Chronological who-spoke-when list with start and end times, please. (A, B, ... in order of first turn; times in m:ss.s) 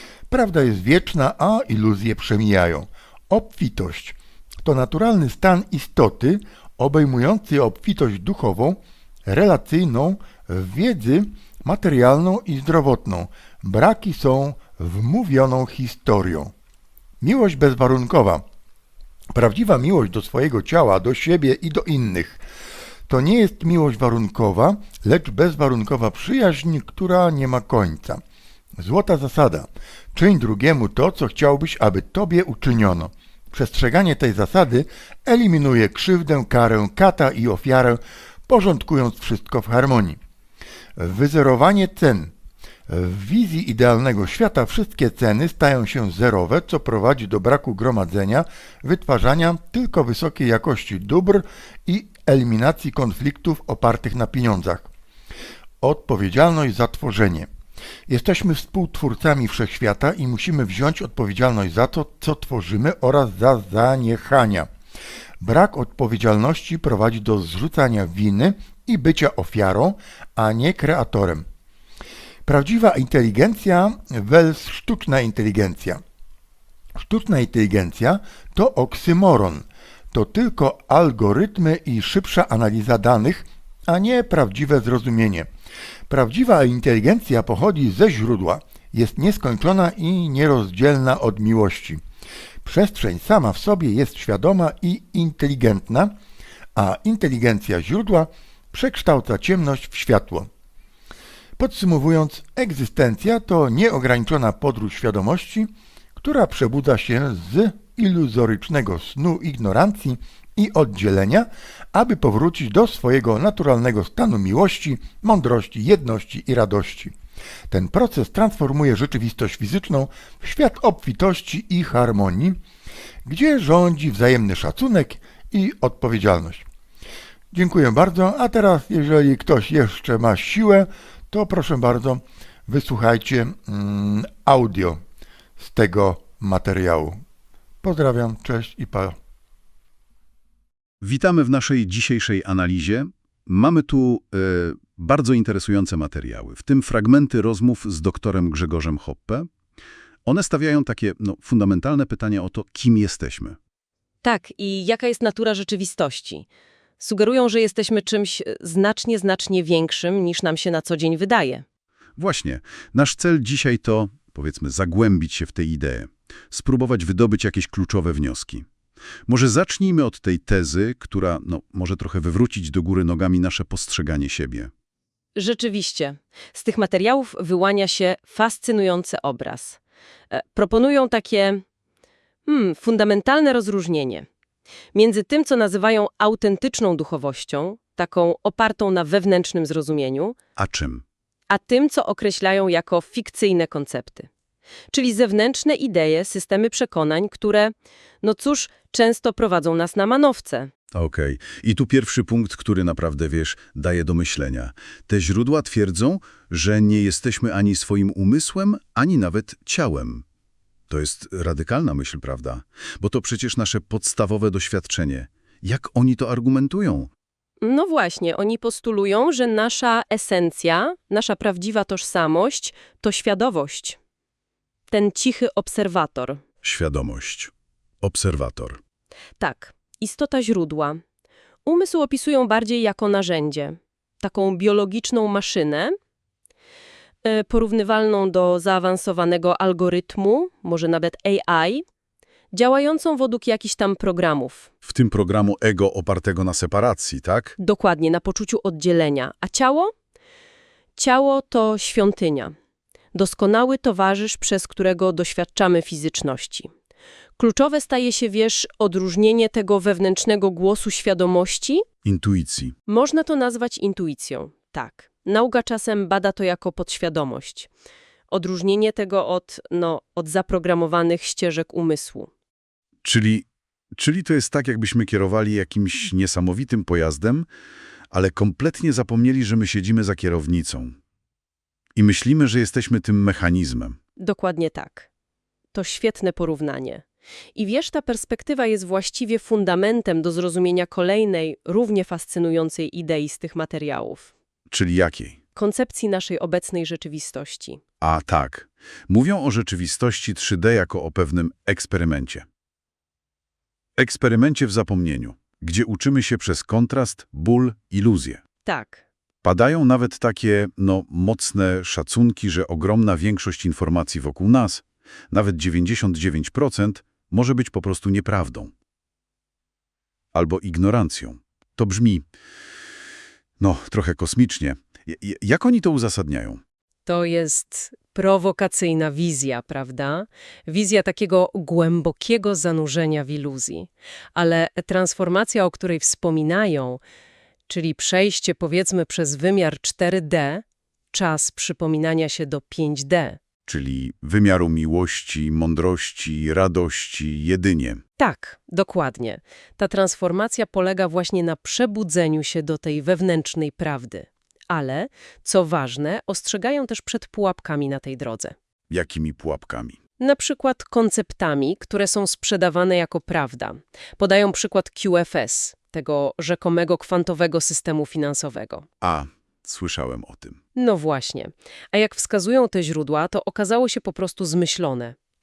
0:00.3-0:16.5 A
0:17.2-0:18.4 A
0:19.3-0:22.4 A
0:23.1-0:28.2 A
0:28.8-0:40.2 A
0:41.0-0:42.3 A
0:42.9-0:54.9 A
0:55.8-0:57.5 A
0:58.1-1:04.7 A
1:05.4-1:11.4 A
1:12.4-1:16.0 A
1:17.0-1:25.5 A
1:26.1-1:32.0 A
1:32.6-1:36.1 A
1:36.7-1:40.5 A
1:41.6-1:57.1 A
1:57.7-2:02.6 A
2:03.2-2:06.6 A
2:07.5-2:15.0 A
2:15.6-2:17.2 A
2:17.8-2:19.2 A
2:21.0-2:29.5 B
2:30.2-2:33.6 B
2:34.2-2:36.5 C
2:37.0-2:41.6 C
2:42.2-2:48.6 B
2:49.3-2:54.7 B
2:55.4-2:59.8 C
3:00.3-3:01.6 C
3:02.4-3:04.2 C
3:04.9-3:10.4 C
3:10.6-3:11.0 B
3:11.5-3:14.3 C
3:14.9-3:20.7 C
3:20.9-3:30.2 B
3:30.9-3:37.1 B
3:37.6-3:44.0 C
3:44.9-3:46.4 C
3:46.6-3:48.8 B
3:49.4-3:51.0 C
3:51.6-3:56.0 C
3:57.2-4:01.8 C
4:02.5-4:04.7 C
4:04.8-4:07.6 B
4:07.6-4:09.9 C
4:11.0-4:12.5 C
4:13.1-4:16.7 C
4:17.4-4:21.8 C
4:22.0-4:22.7 B
4:22.9-4:27.7 C
4:28.3-4:32.3 C
4:33.0-4:37.5 B
4:38.1-4:41.0 B
4:42.0-4:44.0 B
4:44.2-4:45.1 C
4:45.7-4:47.0 C
4:47.5-4:54.3 C
4:54.7-4:55.4 B
4:55.6-4:57.8 C
4:58.0-5:02.4 B
5:04.0-5:08.4 B
5:08.6-5:09.0 C
5:09.4-5:18.7 B
5:20.3-5:22.2 B
5:23.6-5:26.6 B
5:27.0-5:37.0 C
5:37.7-5:43.4 C
5:43.6-5:48.0 B
5:48.2-5:58.5 C
5:58.9-6:00.0 B
6:00.2-6:08.8 C
6:09.0-6:10.6 B
6:10.7-6:15.2 C